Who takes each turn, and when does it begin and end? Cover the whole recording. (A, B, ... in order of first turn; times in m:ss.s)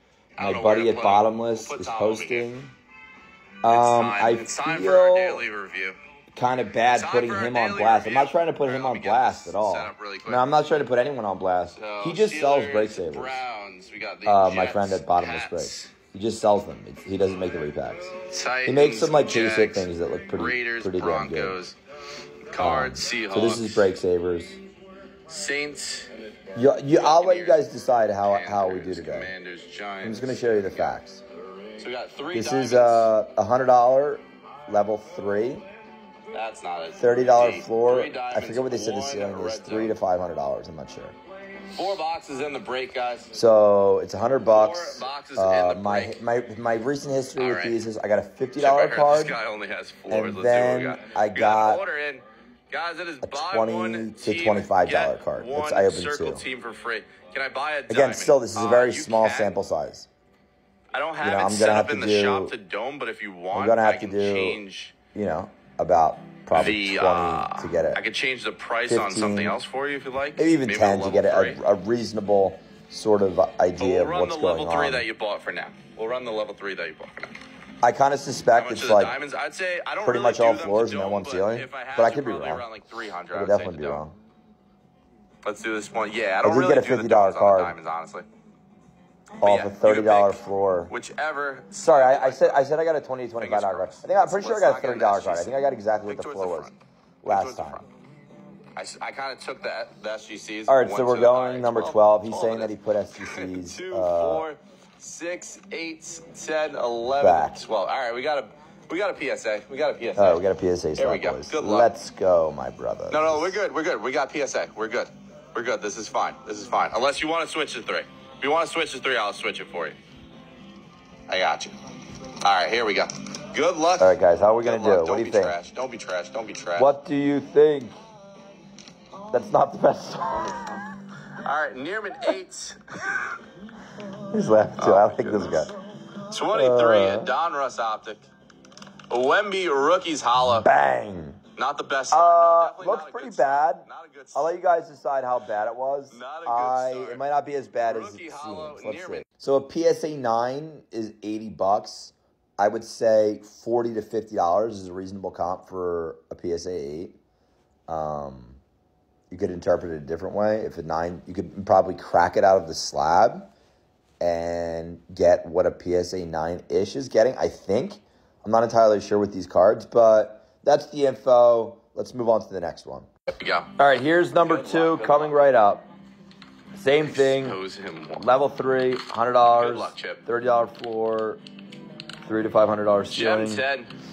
0:00.4-0:02.5 A
0:00.4-0:02.7 B
0:03.6-0:05.4 B
0:03.7-0:06.0 A
0:06.3-0:13.4 B
0:06.9-0:10.4 A
0:11.7-0:15.9 A
0:14.2-0:21.6 B
0:18.2-0:21.8 A
0:22.5-0:23.9 A
0:22.6-0:24.6 B
0:25.3-0:26.1 A
0:26.5-0:29.3 B
0:26.9-0:27.6 A
0:28.2-0:31.0 A
0:30.0-0:31.2 B
0:31.8-0:33.1 A
0:32.3-0:35.6 B
0:36.3-0:40.0 A
0:37.0-0:41.2 B
0:41.7-0:43.3 A
0:43.3-0:49.4 B
0:44.5-0:46.2 A
0:47.4-0:47.8 A
0:48.6-0:59.5 A
0:50.1-0:51.8 B
0:53.2-0:56.4 B
0:57.9-1:00.1 B
1:00.9-1:05.0 A
1:01.2-1:02.5 B
1:03.5-1:04.6 B
1:05.1-1:08.0 B
1:06.5-1:11.6 A
1:08.9-1:09.6 B
1:10.4-1:15.0 B
1:13.8-1:17.4 A
1:17.8-1:19.1 B
1:18.5-1:24.0 A
1:20.0-1:22.6 B
1:23.3-1:24.1 B
1:25.4-1:28.3 A
1:26.4-1:27.8 B
1:29.4-1:32.6 A
1:29.4-1:30.9 B
1:31.7-1:36.7 B
1:33.4-1:36.7 A
1:37.2-1:37.8 B
1:37.2-1:37.8 A
1:38.7-1:50.4 A
1:40.7-1:44.5 B
1:47.1-1:47.6 B
1:50.2-1:53.6 B
1:51.0-1:51.9 A
1:53.1-2:00.0 A
2:01.3-2:01.8 A
2:02.4-2:06.9 A
2:04.0-2:05.5 B
2:06.8-2:07.9 B
2:09.3-2:10.8 B
2:11.3-2:13.4 A
2:14.2-2:15.7 B
2:14.8-2:18.2 A
2:16.5-2:17.3 B
2:19.1-2:20.7 A
2:20.4-2:21.4 B
2:21.5-2:24.5 A
2:22.1-2:37.2 B
2:26.1-2:27.2 A
2:27.8-2:29.2 A
2:37.9-2:38.6 B
2:39.3-2:43.5 B
2:44.2-2:53.1 B
2:53.3-2:53.7 A
2:53.8-2:55.9 B
2:54.4-2:55.4 A
2:56.7-2:57.6 B
2:56.9-2:58.2 A
2:58.2-3:01.4 B
2:59.6-3:00.2 A
3:02.2-3:03.6 B
3:03.1-3:03.9 A